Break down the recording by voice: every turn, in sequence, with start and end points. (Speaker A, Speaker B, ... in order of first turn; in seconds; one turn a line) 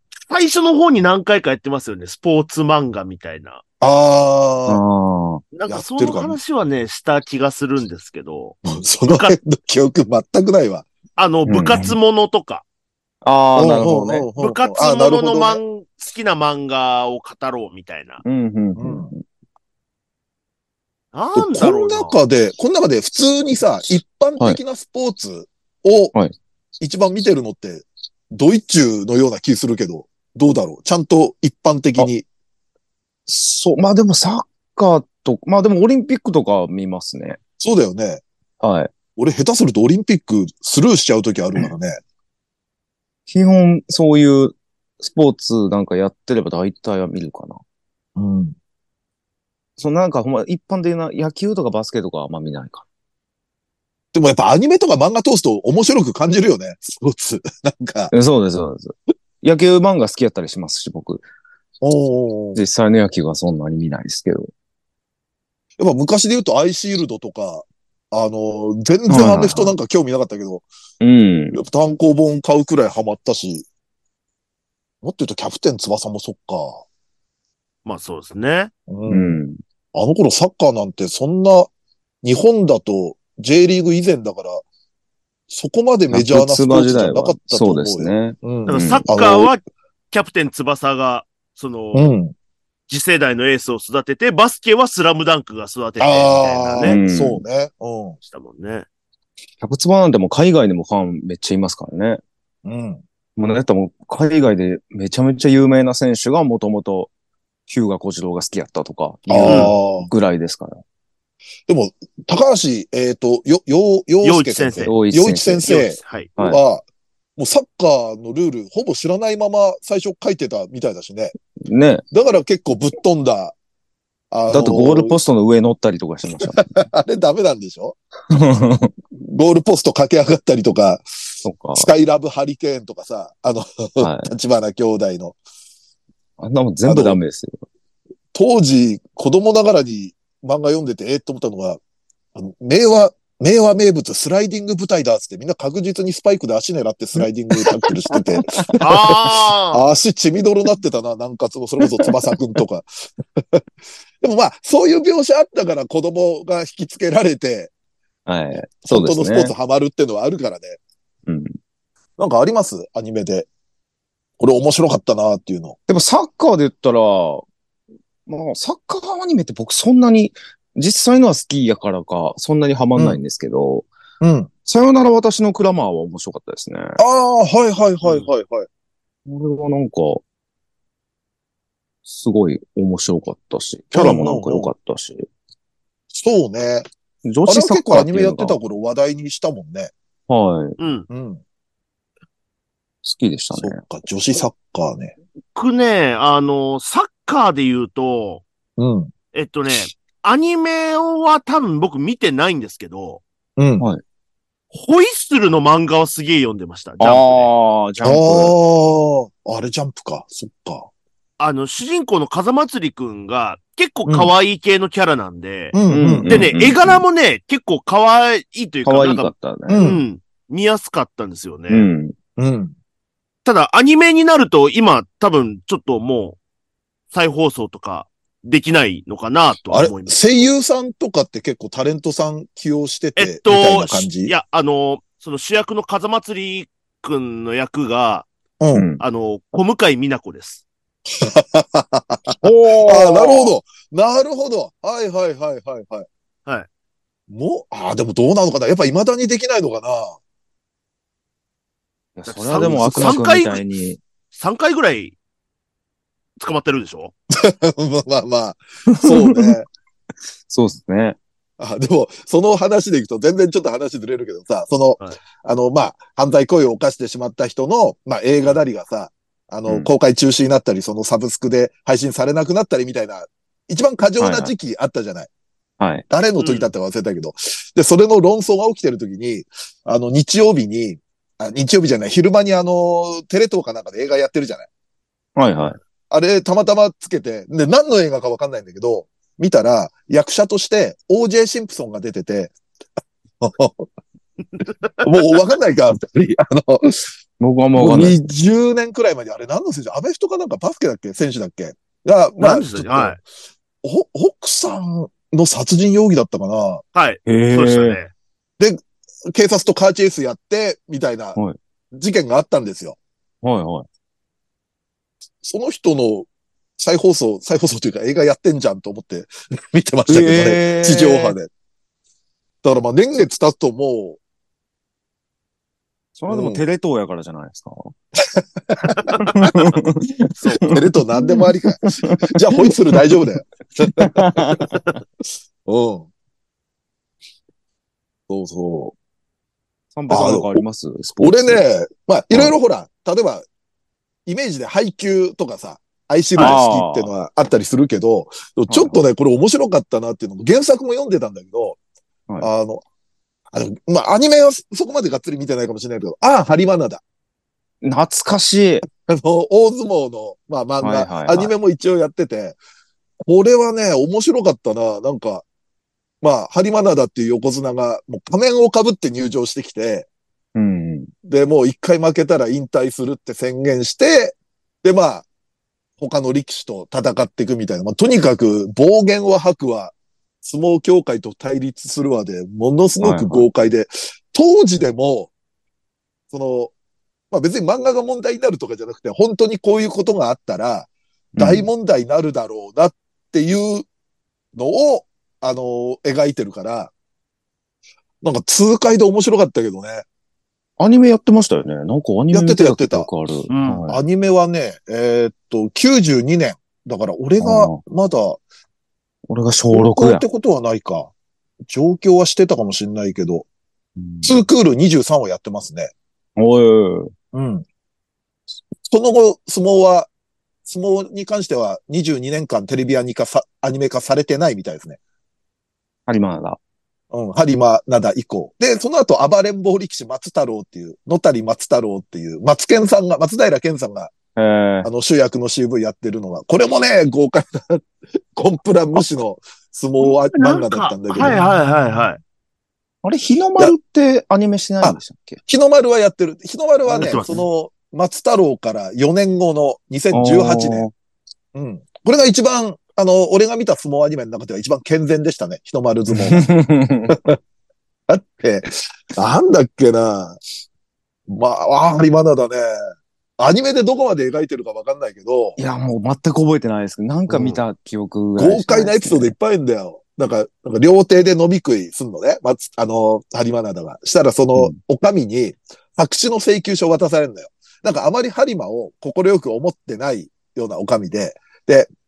Speaker A: 0.3-3.6
Speaker B: 3.8-4.8
Speaker C: 4.7-5.4
Speaker A: 5.5-9.3
Speaker B: 5.7-6.4
Speaker B: 8.6-10.9
Speaker A: 11.2-12.6
Speaker C: 11.4-11.9
Speaker C: 13.2-14.3
Speaker B: 13.5-15.6
Speaker A: 14.4-18.2
Speaker C: 18.2-19.2
Speaker B: 18.8-19.1
Speaker A: 21.1-22.1
Speaker B: 21.3-26.1
Speaker B: 26.8-32.2
Speaker C: 33.3-37.4
Speaker B: 37.6-38.2
Speaker C: 38.6-38.9
Speaker B: 39.2-42.0
Speaker C: 43.3-47.6
Speaker B: 48.1-48.5
Speaker C: 49.8-52.8
Speaker B: 54.1-58.1
Speaker C: 58.1-61.2
Speaker B: 61.8-62.6
Speaker C: 62.5-64.5
Speaker B: 65.8-70.6
Speaker C: 69.1-69.7
Speaker C: 71.0-71.6
Speaker B: 71.5-73.7
Speaker B: 75.0-76.8
Speaker A: 77.8-78.7
Speaker B: 78.9-79.4
Speaker C: 79.1-79.6
Speaker B: 79.9-81.7
Speaker B: 82.2-84.6
Speaker B: 85.5-89.5
Speaker C: 86.1-89.1
Speaker A: 88.7-92.1
Speaker B: 91.9-92.3
Speaker A: 92.9-97.0
Speaker B: 96.0-98.2
Speaker C: 96.8-97.4
Speaker A: 98.2-98.8
Speaker C: 99.6-102.2
Speaker B: 102.6-103.0
Speaker C: 103.4-107.1
Speaker C: 107.7-110.8
Speaker B: 109.3-110.1
Speaker A: 109.4-109.7
Speaker B: 111.7-116.8
Speaker A: 114.2-115.0
Speaker C: 114.8-115.7
Speaker A: 115.7-116.3
Speaker C: 116.3-116.6
Speaker B: 117.4-121.3
Speaker C: 121.7-122.0
Speaker B: 122.1-123.5
Speaker B: 124.3-125.1
Speaker C: 124.5-126.8
Speaker B: 126.4-128.0
Speaker C: 128.3-128.9
Speaker B: 129.1-131.1
Speaker C: 131.4-131.9
Speaker B: 131.7-135.4
Speaker C: 134.0-134.3
Speaker C: 136.4-137.6
Speaker B: 136.8-137.2
Speaker B: 138.3-141.8
Speaker B: 142.3-153.6
Speaker C: 147.6-148.7
Speaker A: 148.8-149.8
Speaker C: 151.8-152.1
Speaker B: 154.2-157.7
Speaker C: 158.2-159.5
Speaker B: 158.8-160.8
Speaker C: 161.3-161.5
Speaker B: 162.2-163.5
Speaker B: 164.4-165.8
Speaker C: 165.9-167.4
Speaker C: 168.3-173.9
Speaker B: 174.2-174.5
Speaker C: 174.6-177.0
Speaker B: 177.0-178.7
Speaker C: 179.2-180.2
Speaker C: 182.1-185.3
Speaker B: 183.9-184.7
Speaker B: 186.1-186.9
Speaker C: 187.2-188.6
Speaker B: 187.4-189.9
Speaker C: 190.3-190.8
Speaker A: 190.8-191.1
Speaker B: 191.1-191.4
Speaker C: 193.0-193.8
Speaker B: 193.5-195.1
Speaker A: 195.6-198.4
Speaker B: 198.8-199.1
Speaker A: 199.3-203.2
Speaker B: 203.6-203.8
Speaker A: 204.7-207.5
Speaker C: 207.0-208.6
Speaker B: 208.0-210.9
Speaker A: 211.4-215.8
Speaker B: 214.1-214.3
Speaker B: 215.7-216.4
Speaker C: 215.9-217.0
Speaker A: 216.3-221.9
Speaker C: 218.8-219.9
Speaker B: 219.7-220.0
Speaker C: 221.7-222.1
Speaker B: 222.4-222.7
Speaker A: 223.4-226.4
Speaker A: 227.1-230.2
Speaker B: 229.7-234.3
Speaker A: 233.2-238.3
Speaker B: 238.6-238.8
Speaker C: 238.7-239.0
Speaker A: 239.0-240.6
Speaker B: 241.1-246.1
Speaker C: 242.4-243.5
Speaker B: 247.3-250.2
Speaker C: 252.2-254.0
Speaker A: 252.3-253.6
Speaker B: 252.6-253.2
Speaker A: 254.3-255.2
Speaker A: 256.4-257.1
Speaker B: 257.3-259.6
Speaker C: 258.9-259.5
Speaker C: 260.5-261.2
Speaker B: 261.6-275.3
Speaker C: 274.2-274.5
Speaker C: 275.8-276.0
Speaker B: 276.1-284.7
Speaker A: 276.4-276.7
Speaker C: 285.4-285.8
Speaker B: 286.1-292.5
Speaker B: 293.4-293.9
Speaker B: 295.0-297.1
Speaker C: 297.4-298.2
Speaker B: 297.8-303.2
Speaker A: 302.4-303.2
Speaker B: 303.8-306.8
Speaker A: 306.9-308.1
Speaker C: 307.2-308.0
Speaker B: 309.3-311.4
Speaker B: 311.9-313.0
Speaker C: 313.4-313.9
Speaker B: 315.4-321.5
Speaker C: 320.1-321.4
Speaker B: 322.6-324.2
Speaker C: 326.1-327.9
Speaker B: 326.3-326.6
Speaker B: 328.3-329.5
Speaker C: 328.9-333.0
Speaker B: 330.4-334.7
Speaker C: 333.8-334.8
Speaker B: 335.6-336.1
Speaker B: 338.3-338.9
Speaker C: 339.9-341.6
Speaker B: 340.1-340.6
Speaker B: 341.2-343.4
Speaker B: 344.2-351.8
Speaker C: 346.4-347.1
Speaker C: 348.7-349.0
Speaker B: 352.4-352.8
Speaker B: 353.5-357.0
Speaker C: 357.8-358.8
Speaker B: 359.0-362.6
Speaker C: 360.8-361.5
Speaker B: 363.2-365.4
Speaker B: 366.2-370.1
Speaker C: 370.5-371.1
Speaker B: 371.2-375.3
Speaker B: 376.0-385.3
Speaker C: 383.0-383.4
Speaker B: 386.3-386.7
Speaker B: 387.3-393.9
Speaker C: 391.4-391.7
Speaker B: 394.5-396.9
Speaker B: 398.2-400.0
Speaker C: 400.8-404.0
Speaker B: 402.3-403.1
Speaker A: 403.5-403.8
Speaker B: 403.9-408.4
Speaker C: 407.4-407.8
Speaker C: 409.3-410.2
Speaker B: 409.7-411.1
Speaker B: 411.7-413.4
Speaker C: 414.0-414.4
Speaker B: 414.2-415.9
Speaker C: 416.4-417.1
Speaker B: 417.3-417.6
Speaker B: 418.9-420.1
Speaker B: 420.6-425.0
Speaker C: 426.1-426.6
Speaker B: 427.1-434.1
Speaker C: 434.4-434.9
Speaker B: 434.8-441.4
Speaker A: 440.1-442.2
Speaker C: 443.0-445.4
Speaker B: 444.8-450.9
Speaker A: 446.9-447.4
Speaker C: 450.1-450.9
Speaker B: 451.5-456.5
Speaker C: 456.1-457.2
Speaker B: 457.1-457.4
Speaker B: 458.1-460.4
Speaker B: 461.3-462.7
Speaker B: 463.4-465.6
Speaker C: 465.6-469.3
Speaker B: 468.4-481.9